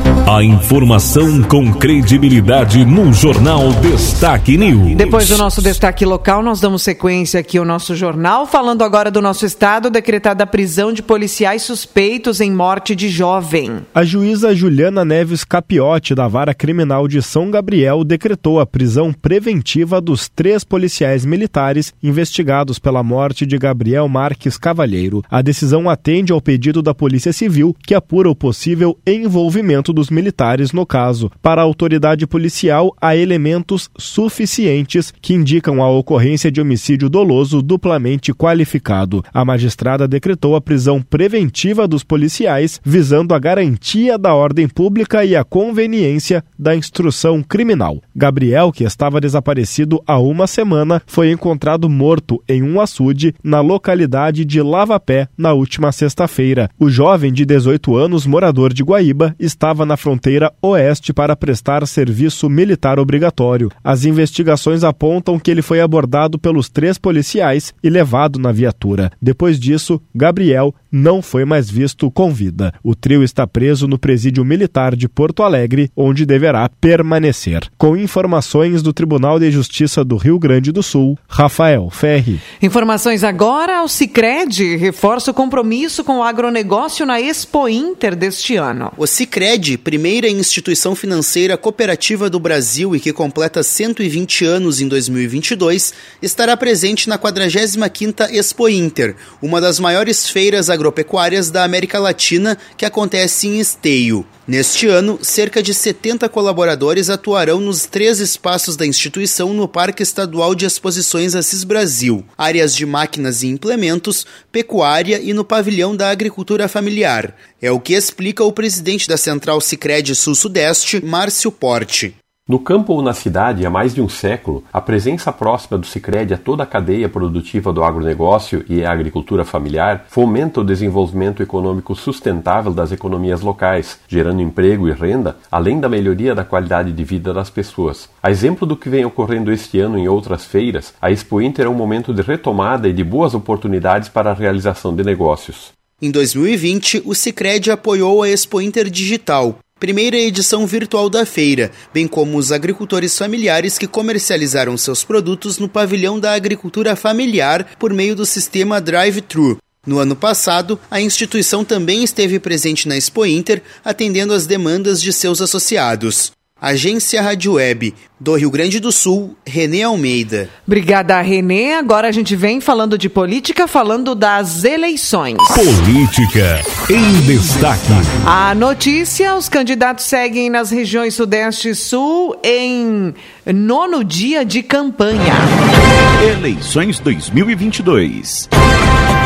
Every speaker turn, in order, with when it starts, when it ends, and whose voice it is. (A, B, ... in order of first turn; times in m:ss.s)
0:00.3-0:05.4 A
0:04.9-0:13.8 B
0:14.0-1:22.4 C
1:22.6-1:29.0 B
1:29.0-2:02.1 D
2:02.5-2:25.8 E
2:26.0-2:50.5 D
2:50.7-2:55.7 B
2:55.5-2:58.1 A
2:58.2-3:05.5 B
3:06.2-3:08.5 F